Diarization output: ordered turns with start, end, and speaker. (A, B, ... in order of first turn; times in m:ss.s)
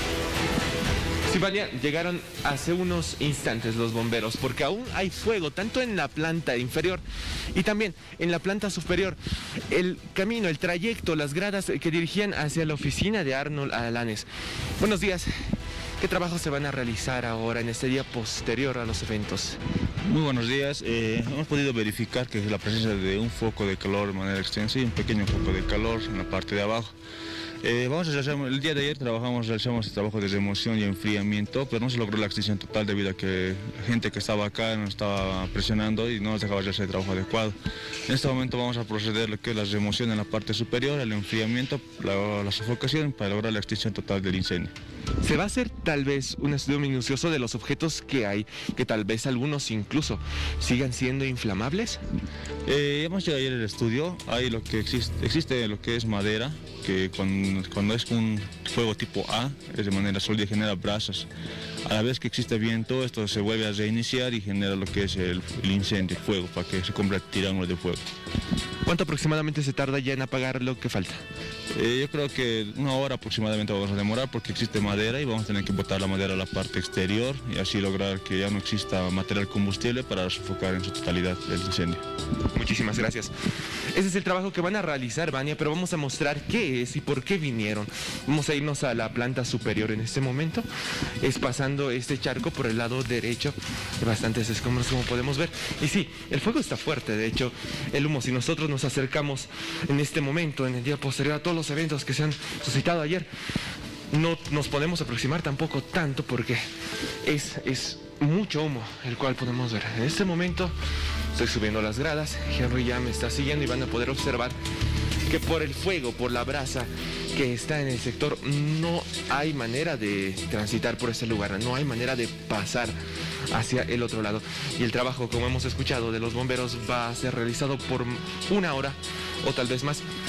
0:01.3-0:07.0 A
0:07.5-0:09.2 A
0:09.7-0:14.3 A
0:14.8-0:15.3 A
0:16.0-0:19.6 A
0:20.0-0:26.9 B
0:27.6-0:37.5 B
0:38.1-0:44.7 B
0:45.2-0:52.0 A
0:52.6-1:01.3 B
1:01.8-1:08.0 B
1:08.8-1:11.2 A
1:11.7-1:22.0 B
1:22.5-1:23.3 A
1:23.9-1:30.6 A
1:31.2-1:43.3 A
1:44.1-1:46.6 A
1:47.2-1:50.7 A
1:51.3-1:54.5 A
1:55.3-2:02.9 A
2:03.5-2:10.0 A